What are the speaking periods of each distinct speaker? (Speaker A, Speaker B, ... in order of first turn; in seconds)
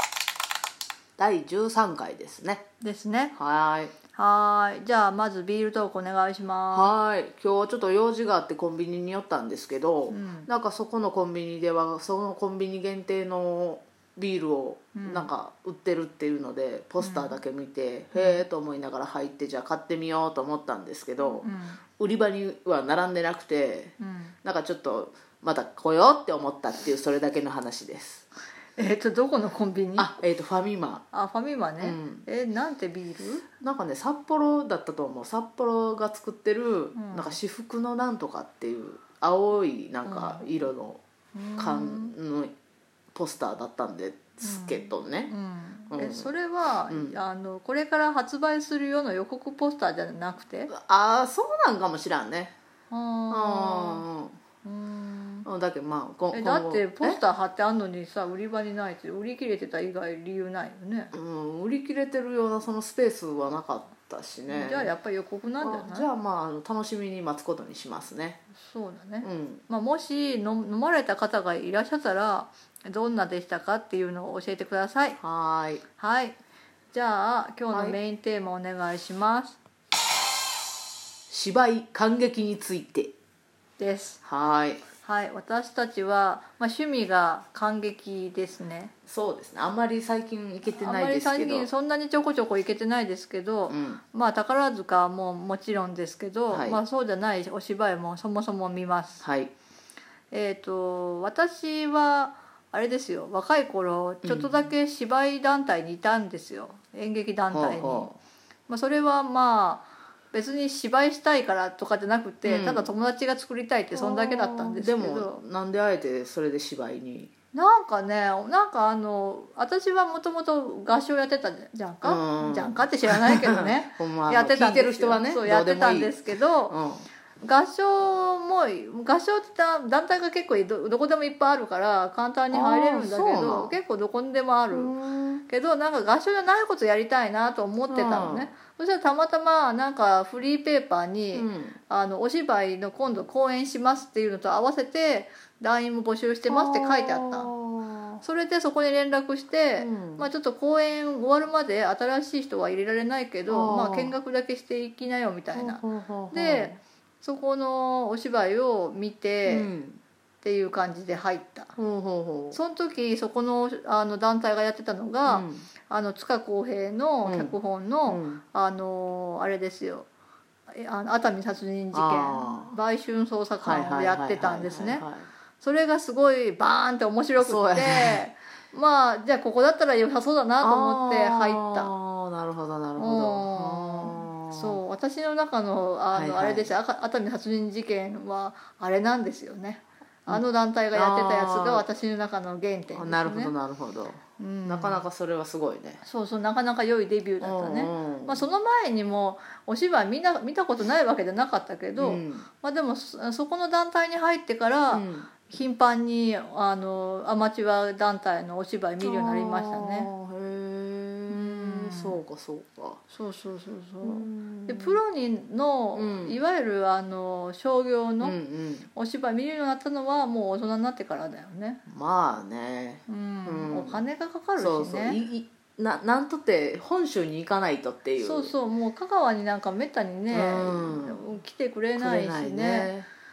Speaker A: 1.2-2.6, 3.4-3.9, 6.7-21.5, 22.0-28.2, 30.0-31.1, 31.8-32.2, 33.6-41.0, 41.6-42.5, 43.1-45.3, 45.9-46.3, 46.9-47.2, 50.7-52.5, 53.3-54.4, 55.5-57.2, 61.1-64.9, 65.6-68.4, 69.2-69.6, 75.2-75.8, 77.7-78.0, 81.3-83.1, 84.2-84.8, 89.1-91.7, 93.7-94.0, 96.5-96.8, 99.2-99.5, 104.2-104.7, 107.5-108.2, 112.4-112.9, 113.9-117.3, 122.0-126.2, 126.7-127.0, 132.5-133.8, 134.7-135.4, 137.9-138.5, 141.3-141.8, 146.5-148.2, 149.8-150.3, 153.5-154.1, 155.5-156.8, 159.4-160.0, 161.8-162.6, 165.2-165.7, 167.2-167.5, 168.1-168.4, 171.9-172.7, 173.6-175.3, 177.4-178.2, 180.6-184.8, 186.1-186.7, 190.3-191.8, 192.9-196.0, 197.4-198.4, 202.0-202.5, 204.9-205.3, 209.0-213.0, 214.0-215.0, 215.9-216.4, 218.2-218.9, 221.9-224.0, 224.6-228.5, 230.3-231.3, 231.9-233.1
Speaker B: 2.8-3.3, 4.1-6.9, 10.1-10.5, 14.9-15.3, 17.0-17.4, 18.1-18.4, 21.4-21.8, 24.0-24.3, 28.8-30.1, 31.1-33.5, 36.9-37.4, 40.0-40.5, 41.3-42.1, 44.4-50.7, 52.9-54.0, 54.6-55.5, 56.3-61.1, 64.5-66.1, 68.6-75.2, 76.0-76.4, 76.9-79.6, 83.8-84.2, 85.0-88.9, 90.7-99.2, 100.3-108.1, 108.7-115.4, 117.5-126.7, 127.4-134.9, 135.5-147.5, 148.2-159.7, 160.4-161.7, 162.5-170.1, 170.7-175.1, 175.6-181.9, 183.0-193.5, 194.4-195.0, 196.0-210.1, 211.3-212.2, 213.1-218.4, 218.9-221.8, 223.1-225.2, 228.2-232.9